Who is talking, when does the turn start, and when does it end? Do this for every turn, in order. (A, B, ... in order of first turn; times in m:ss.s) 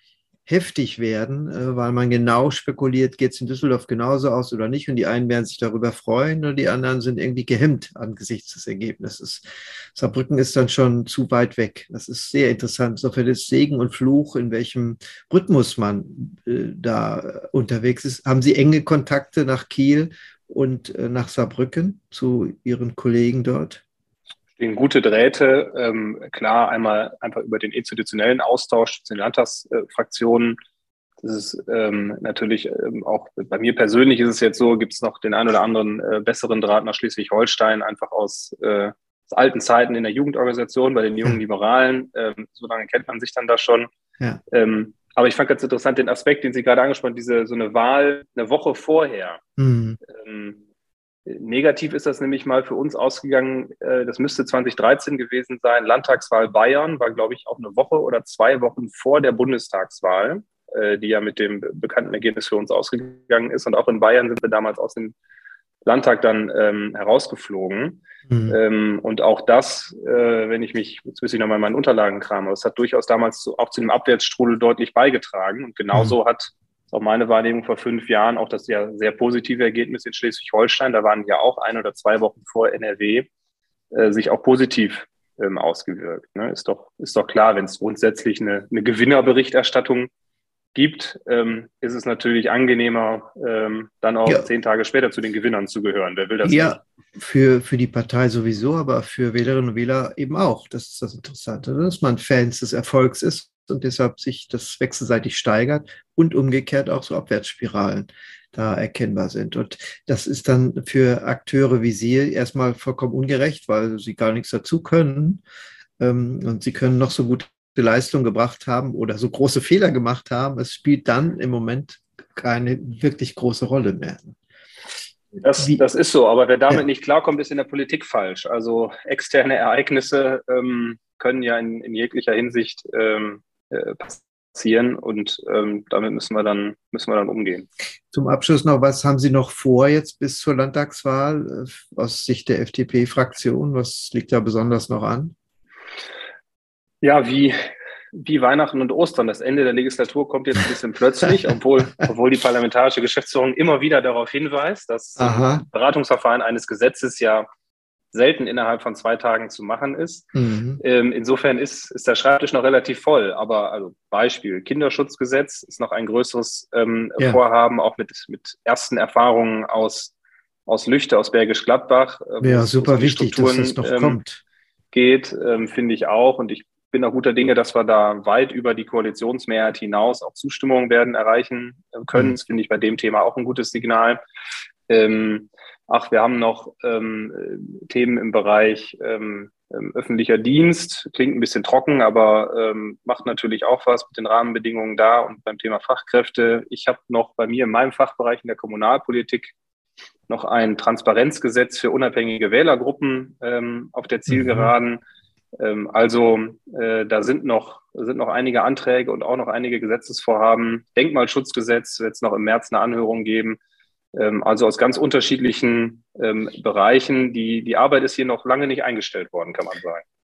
0:00.4-0:23.8 A
0:24.6-0:30.6 B
0:31.2-0:43.9 B
0:44.5-0:49.4 B
0:49.6-0:50.0 A
0:50.0-0:50.6 B
0:51.2-1:05.2 B
1:05.8-1:23.3 B
1:08.3-1:08.6 A
1:23.9-1:30.1 B
1:30.7-1:36.8 B
1:36.4-1:55.4 A
1:56.0-2:04.4 A
2:05.4-2:17.7 B
2:18.1-2:25.3 A
2:27.0-2:27.5 B
2:28.1-2:37.4 B
2:35.2-2:35.6 A
2:38.1-2:40.3 B
2:40.3-2:40.8 A
2:40.8-2:50.1 B
2:50.7-2:54.2 B
2:52.4-2:54.4 A
2:54.9-3:04.2 B
3:04.9-3:19.5 B
3:20.3-3:25.0 B
3:24.3-3:24.7 A
3:25.6-3:33.6 B
3:34.1-3:40.0 B